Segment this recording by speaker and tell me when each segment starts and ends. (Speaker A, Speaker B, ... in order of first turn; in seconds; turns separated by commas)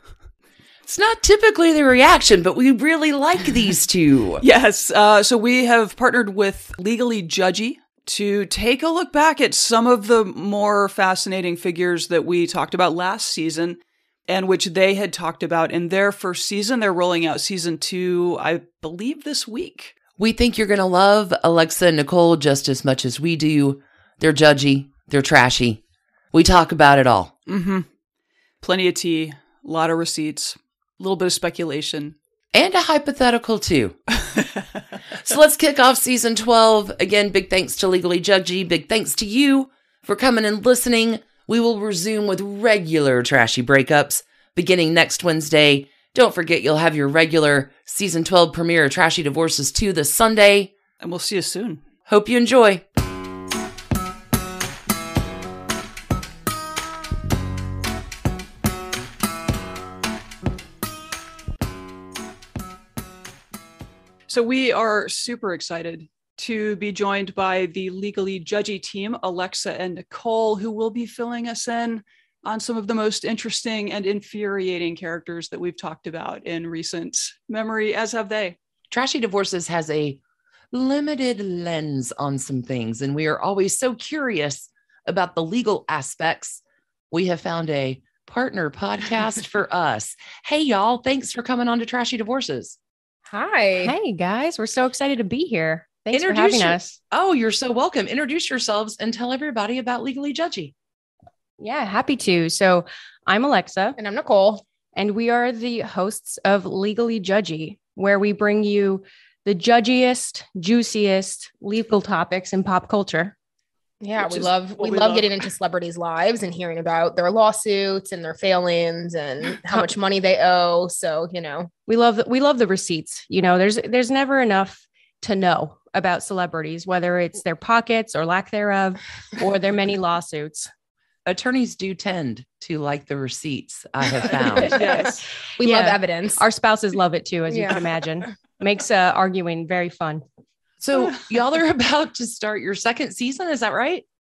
Speaker A: 0.8-4.4, Speaker B: 4.4-19.9, Speaker A: 20.2-27.3, Speaker B: 27.5-27.9, Speaker B: 28.6-32.2, Speaker A: 32.5-34.0, Speaker A: 35.1-50.7, Speaker B: 51.0-51.9, Speaker A: 52.1-52.9, Speaker B: 64.3-78.6, Speaker A: 78.9-80.2, Speaker A: 80.7-92.8, Speaker C: 93.3-94.0, Speaker D: 93.8-97.0, Speaker A: 96.1-100.7, Speaker D: 101.6-104.0, Speaker C: 104.0-104.7, Speaker D: 105.0-113.3, Speaker C: 114.0-121.7, Speaker B: 114.2-115.4, Speaker D: 121.9-130.7, Speaker A: 131.3-134.8, Speaker C: 134.7-135.1, Speaker B: 134.7-135.3, Speaker D: 134.8-135.1, Speaker C: 135.6-136.4, Speaker D: 135.6-140.2, Speaker C: 137.5-138.0, Speaker A: 140.8-144.1